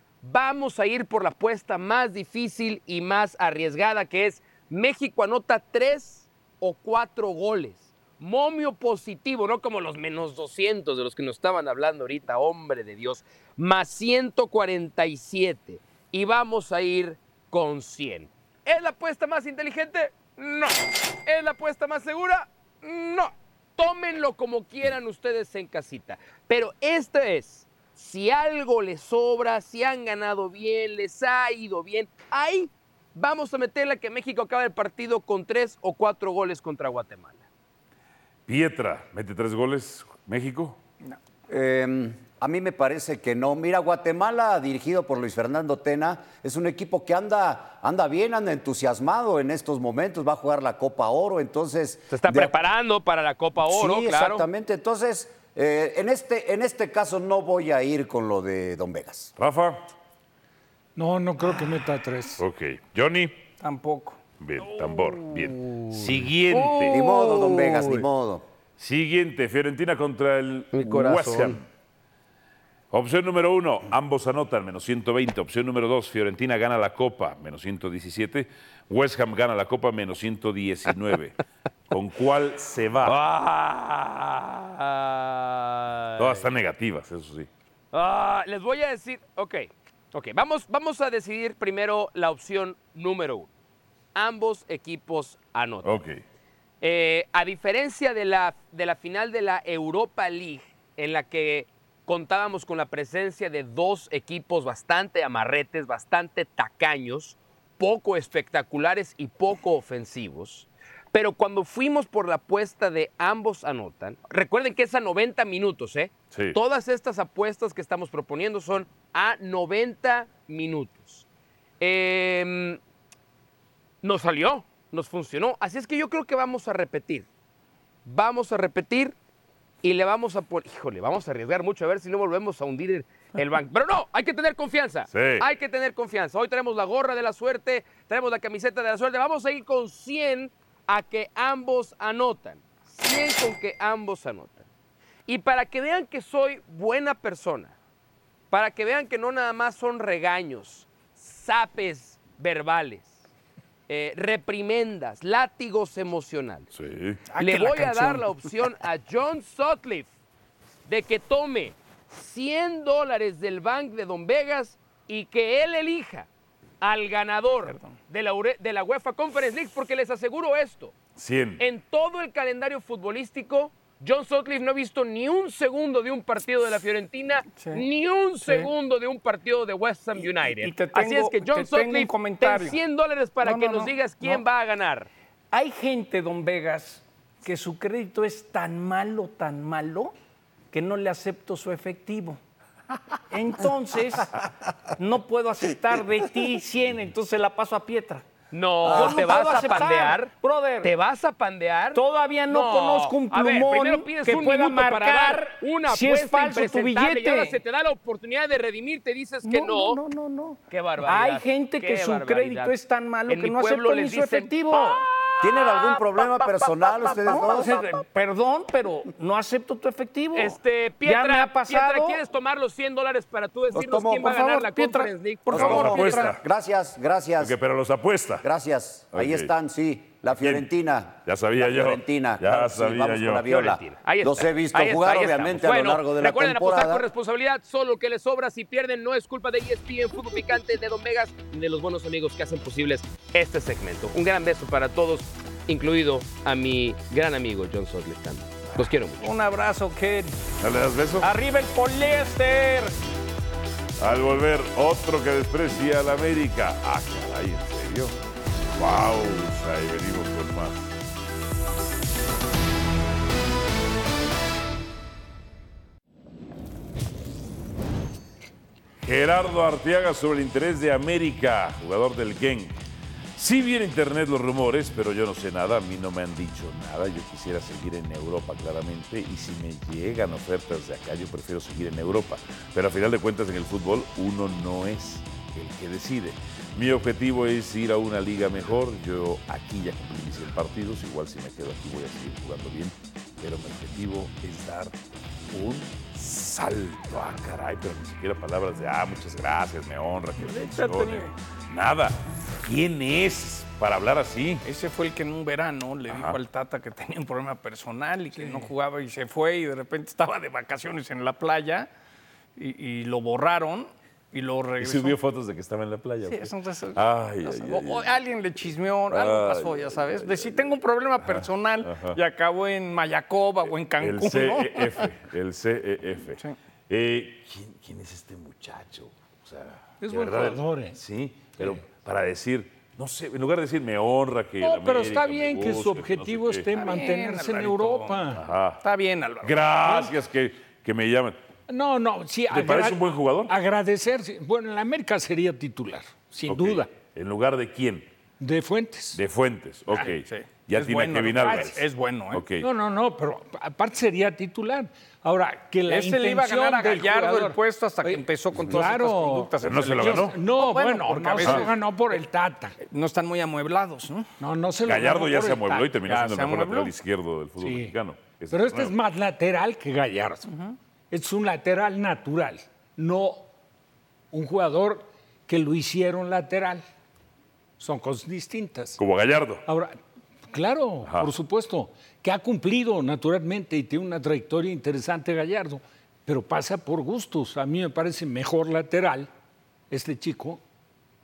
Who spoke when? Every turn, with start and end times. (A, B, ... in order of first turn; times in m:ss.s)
0:00.2-0:37.4 A
0:38.5-0:40.8 B
0:41.5-0:52.5 C
0:52.1-0:54.4 A
0:53.6-0:59.3 C
0:59.4-0:59.8 B
1:01.0-1:02.4 D
1:02.4-1:03.3 B
1:03.6-1:04.2 E
1:04.4-1:07.1 B
1:04.6-1:08.0 A
1:06.9-1:08.4 C
1:08.8-1:11.6 B
1:10.7-1:11.6 A
1:12.9-1:21.4 B
1:21.9-1:23.2 B
1:23.0-1:26.5 A
1:26.2-1:27.5 B
1:27.9-1:33.5 A
1:34.1-1:36.0 A
1:35.8-1:36.2 B
1:36.8-2:01.2 A
1:56.3-1:56.6 B
2:01.8-2:02.8 A
2:04.0-2:07.3 A
2:08.0-2:09.1 A
2:09.8-2:24.7 A
2:15.1-2:15.4 B
2:25.2-2:27.7 A
2:28.5-2:33.1 A
2:33.9-2:36.7 A
2:36.7-2:37.2 B
2:37.3-2:38.4 E
2:37.4-2:40.1 A
2:40.9-2:46.3 A
2:46.8-2:51.0 A
2:47.7-2:48.0 E
2:51.2-2:51.6 B
2:51.6-3:05.1 A
2:57.5-2:57.8 E
2:58.4-2:58.7 E
3:00.2-3:02.8 E
3:03.4-3:04.4 E
3:05.5-3:10.1 E
3:10.7-3:12.4 E
3:13.3-3:14.3 E
3:15.0-3:18.2 E
3:18.5-3:30.0 A
3:18.8-3:20.9 E
3:21.9-3:27.6 E
3:29.4-3:35.0 E
3:30.7-3:32.7 A
3:33.3-3:36.0 A
3:35.4-3:37.7 C
3:37.3-3:42.2 E
3:40.3-3:45.6 A
3:43.7-3:44.4 C
3:44.1-3:46.3 E
3:45.5-3:46.4 B
3:45.5-3:47.5 C
3:47.4-3:48.4 B
3:48.4-3:57.0 C
3:49.1-3:49.5 B
3:50.3-3:50.7 B
3:51.2-3:53.5 B
3:53.5-4:09.3 A
4:09.2-4:10.3 E
4:10.6-4:11.3 B
4:11.2-4:13.0 E
4:14.0-4:18.1 B
4:18.8-4:20.9 B
4:29.0-4:32.7 B
4:33.4-4:55.0 B
4:55.5-5:04.6 B
5:00.4-5:01.3 E
5:04.6-5:11.9 E
5:06.1-5:06.4 B
5:12.6-5:15.2 E
5:14.8-5:18.1 B
5:16.2-5:25.1 E
5:19.1-5:22.2 B
5:24.0-5:36.7 B
5:30.0-5:31.0 D
5:34.6-5:38.4 D
5:36.7-5:39.6 E
5:38.3-5:38.8 B
5:39.4-5:41.4 B
5:41.7-5:46.9 D
5:42.5-5:43.5 B
5:46.5-5:48.0 B
5:48.4-5:49.2 D
5:49.1-5:52.6 B
5:50.2-5:52.4 E
5:51.4-5:51.8 D
5:52.6-6:02.8 D
5:55.9-6:01.8 E
5:59.6-6:00.4 B
6:02.8-6:04.2 E
6:04.4-6:05.9 D
6:04.8-6:08.9 B
6:06.0-6:06.9 E
6:07.6-6:07.9 D
6:08.5-6:10.5 D
6:10.5-6:10.8 E
6:11.1-6:13.4 D
6:14.3-6:16.8 D
6:17.8-6:19.0 D
6:19.0-6:19.6 B
6:19.6-6:20.0 D
6:20.5-6:29.3 D
6:21.0-6:21.3 B
6:29.9-6:30.6 D